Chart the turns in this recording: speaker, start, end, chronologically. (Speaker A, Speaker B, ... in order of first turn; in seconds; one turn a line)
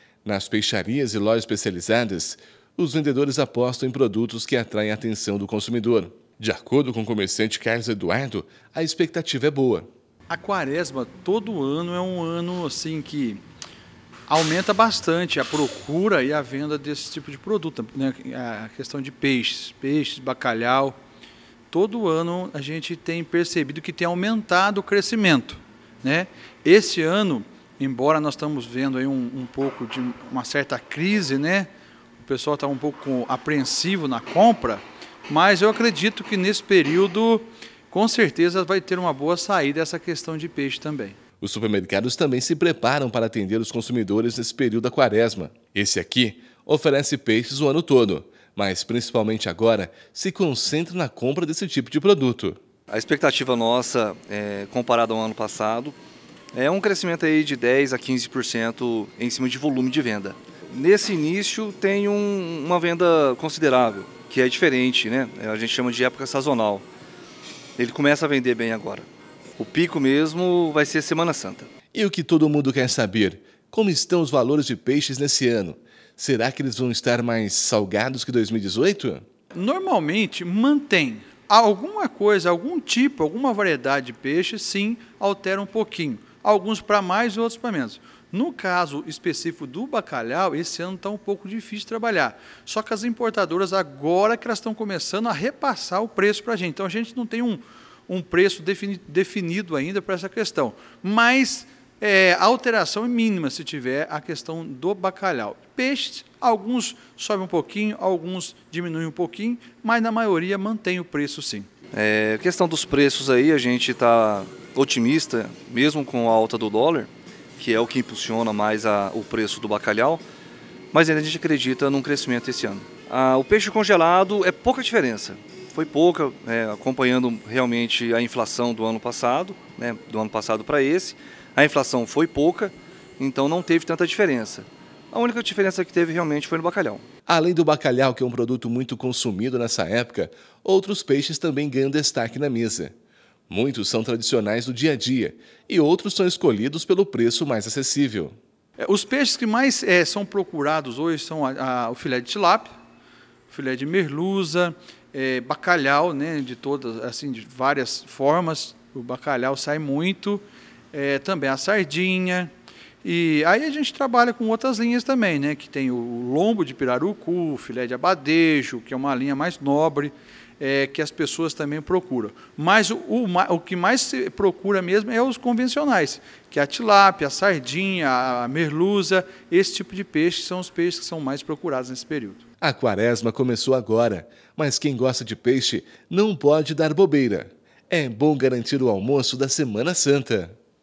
Speaker A: 0.2-9.9
Speaker B: 10.3-13.4
Speaker B: 14.3-20.9
Speaker B: 21.7-41.2
Speaker A: 41.4-52.6
Speaker C: 52.9-56.0
Speaker C: 56.5-66.8
Speaker C: 67.8-71.7
Speaker A: 71.9-79.2
Speaker B: 79.5-111.7
Speaker C: 111.9-120.2
Speaker C: 120.9-137.1
Speaker A: 137.3-142.9
Speaker A: 143.5-148.3
Speaker B: 148.8-152.7
Speaker B: 153.5-162.5
Speaker B: 163.0-182.4
Speaker A: 182.6-190.6